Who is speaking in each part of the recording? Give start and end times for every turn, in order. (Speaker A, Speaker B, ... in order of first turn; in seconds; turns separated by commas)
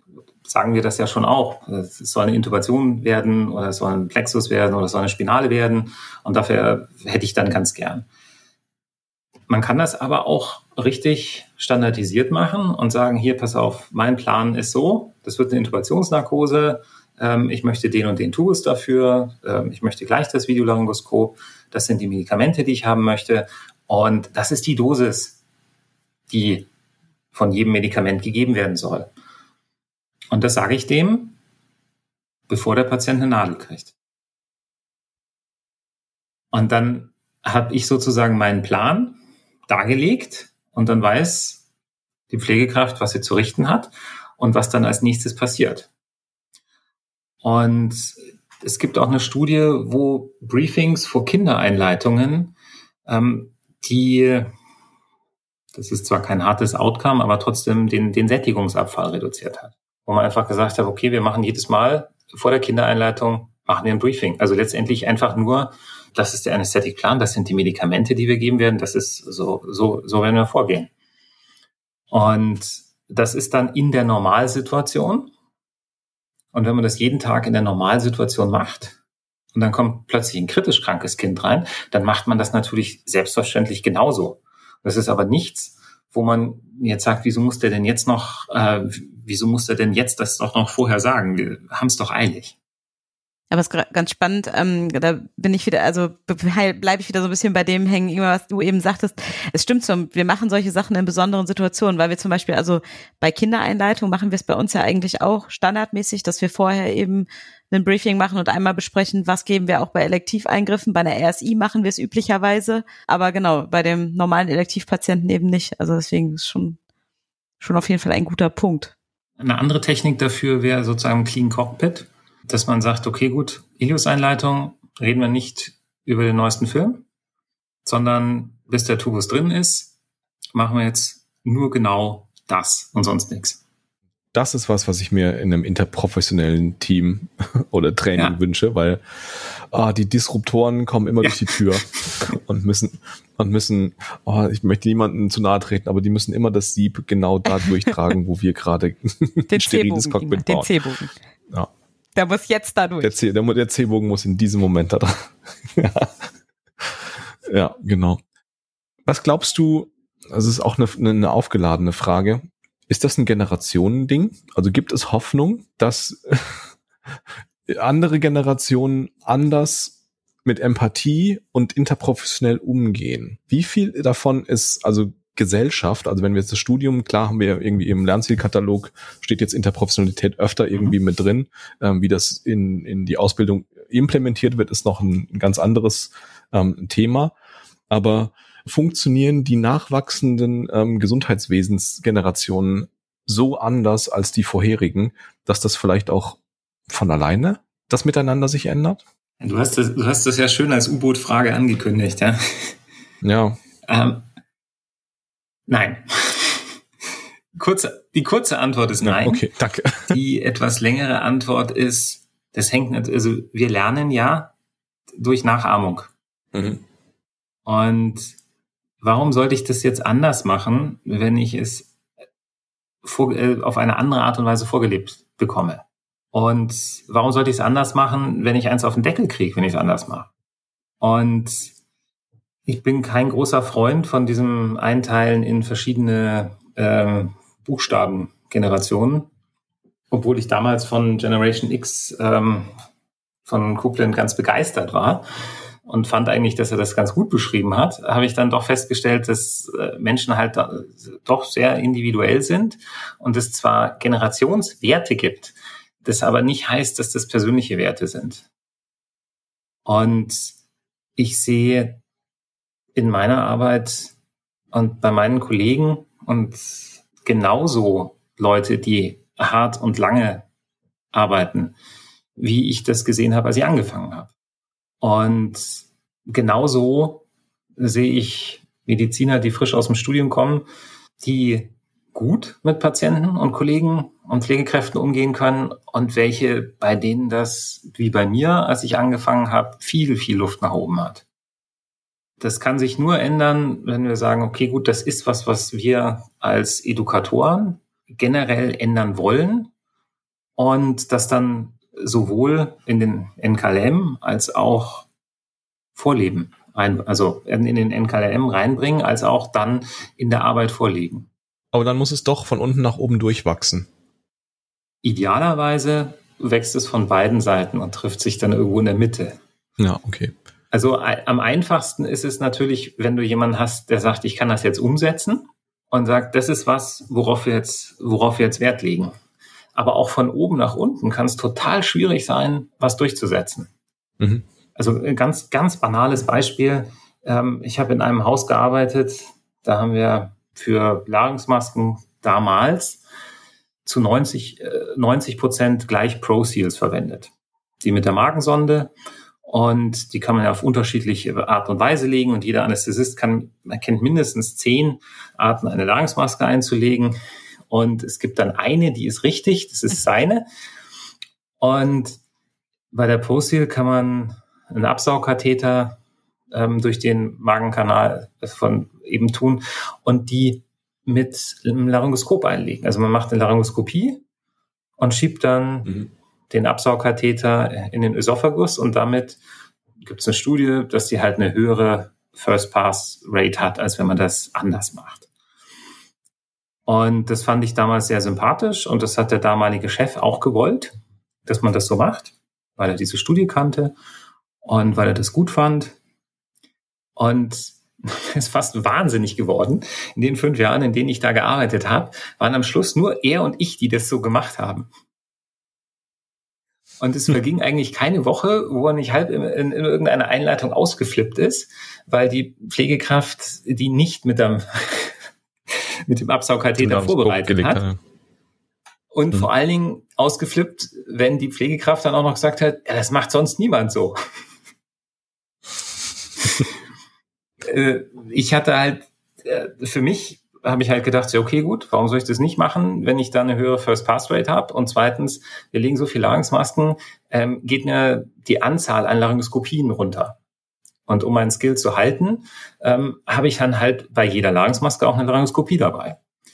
Speaker A: 0.4-8.1, Speaker A: 9.5-25.4, Speaker A: 26.3-26.7, Speaker A: 27.3-29.1, Speaker A: 30.3-31.4, Speaker A: 32.5-33.9, Speaker A: 36.5-41.6, Speaker A: 42.3-45.9, Speaker A: 47.4-52.5, Speaker A: 53.0-54.5, Speaker A: 55.7-70.9, Speaker A: 72.1-75.3, Speaker A: 76.5-79.0, Speaker A: 79.5-92.5, Speaker B: 93.5-116.8, Speaker B: 117.6-118.9, Speaker A: 119.4-127.0, Speaker A: 127.8-129.9, Speaker A: 130.5-133.6, Speaker C: 134.3-150.7, Speaker A: 141.2-142.2, Speaker B: 149.5-151.1, Speaker B: 152.2-153.1, Speaker C: 153.0-156.2, Speaker C: 156.8-158.2, Speaker C: 159.1-166.7, Speaker C: 167.7-187.3, Speaker C: 187.9-199.0, Speaker A: 199.4-202.7, Speaker C: 203.2-203.6, Speaker A: 203.9-204.2, Speaker A: 205.7-206.7, Speaker A: 207.5-209.4, Speaker C: 209.0-210.2, Speaker A: 210.1-214.5, Speaker A: 215.2-216.1, Speaker C: 216.5-216.8, Speaker A: 217.7-218.4, Speaker A: 219.0-221.9, Speaker A: 223.0-230.3, Speaker A: 231.0-231.7, Speaker A: 232.7-239.3, Speaker A: 240.1-242.7, Speaker A: 243.4-245.2, Speaker A: 245.8-258.4, Speaker A: 259.9-260.6, Speaker A: 261.2-262.0, Speaker A: 262.9-264.1, Speaker A: 264.7-270.4, Speaker A: 271.1-271.7, Speaker A: 272.4-274.3, Speaker A: 275.0-277.2, Speaker A: 277.8-280.6, Speaker A: 281.2-291.2, Speaker A: 292.4-299.7, Speaker A: 300.6-305.1, Speaker A: 305.9-311.3, Speaker C: 311.7-313.9, Speaker A: 315.0-319.4, Speaker C: 319.8-320.3, Speaker A: 320.7-329.1, Speaker A: 329.7-333.7, Speaker A: 334.8-343.0, Speaker A: 343.8-347.3, Speaker A: 347.8-348.9, Speaker A: 349.4-357.2, Speaker A: 357.7-360.4, Speaker A: 361.6-362.2, Speaker A: 362.9-366.0, Speaker A: 366.5-374.2, Speaker A: 375.0-375.9, Speaker A: 376.5-379.4, Speaker A: 380.0-385.3, Speaker A: 386.9-390.9, Speaker A: 391.4-393.9, Speaker A: 394.6-395.9, Speaker A: 397.2-404.9, Speaker A: 407.0-415.2, Speaker A: 415.7-417.8, Speaker C: 416.8-418.0, Speaker A: 419.1-424.2, Speaker A: 427.6-440.4, Speaker A: 441.1-446.2